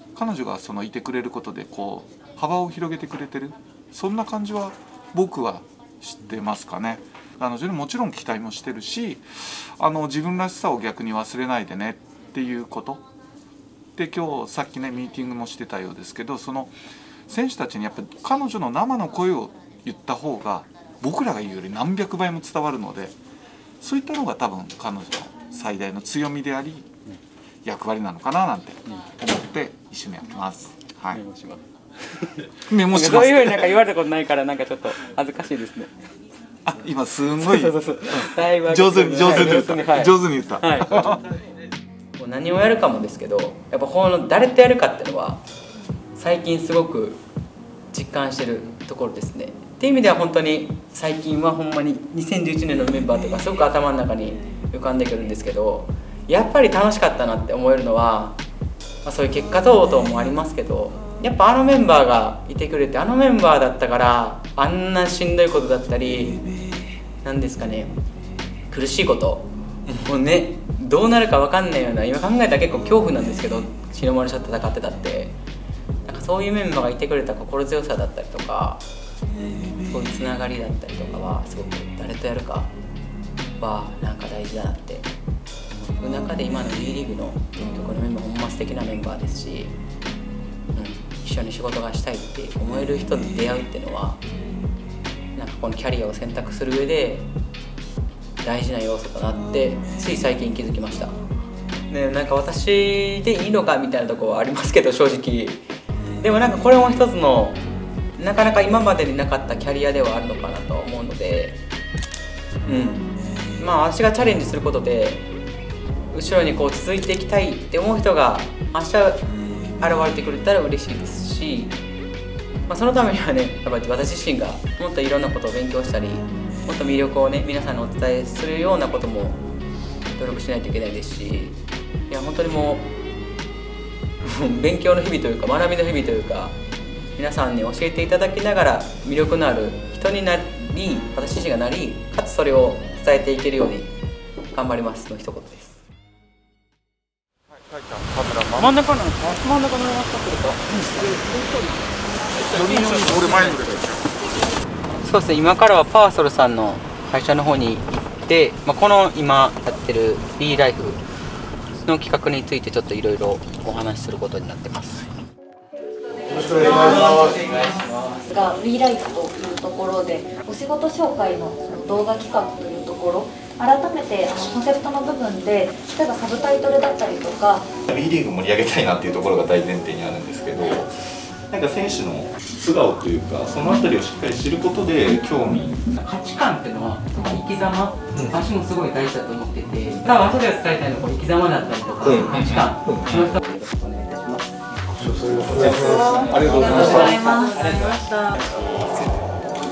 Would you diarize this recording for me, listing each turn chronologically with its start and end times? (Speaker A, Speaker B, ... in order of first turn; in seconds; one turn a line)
Speaker A: 0.1-13.0
Speaker A: 14.0-16.7
Speaker A: 17.3-23.1
Speaker A: 23.8-26.9
Speaker A: 27.6-31.2
Speaker B: 31.1-35.9
Speaker A: 32.7-33.7
Speaker A: 36.7-41.2
Speaker B: 37.4-41.2
Speaker B: 42.2-45.4
Speaker B: 46.1-47.2
Speaker B: 47.9-58.4
Speaker B: 59.0-66.4
Speaker B: 67.2-68.0
Speaker B: 68.7-75.3
Speaker B: 76.1-78.8
Speaker B: 79.9-82.7
Speaker B: 83.6-85.1
Speaker B: 85.7-89.8
Speaker B: 90.8-94.2
Speaker B: 95.4-97.3
Speaker B: 98.4-101.2
Speaker B: 101.9-105.7
Speaker B: 106.2-107.6
Speaker B: 108.2-111.6
Speaker B: 112.7-115.2
Speaker B: 116.1-119.3
Speaker B: 119.8-121.8
Speaker B: 122.7-129.4
Speaker B: 130.2-131.6
Speaker B: 132.1-132.9
Speaker B: 134.2-136.6
Speaker B: 137.2-143.9
Speaker B: 144.5-145.8
Speaker A: 147.6-148.8
Speaker B: 148.6-151.4
Speaker B: 152.3-153.8
Speaker A: 152.4-154.1
Speaker B: 155.0-161.0
Speaker B: 161.8-165.1
Speaker B: 166.4-168.3
Speaker C: 166.5-167.2
Speaker C: 168.3-177.7
Speaker D: 177.9-185.8
Speaker B: 185.9-194.6
Speaker D: 192.1-193.3
Speaker D: 195.5-197.2
Speaker B: 196.0-198.3
Speaker C: 196.9-198.0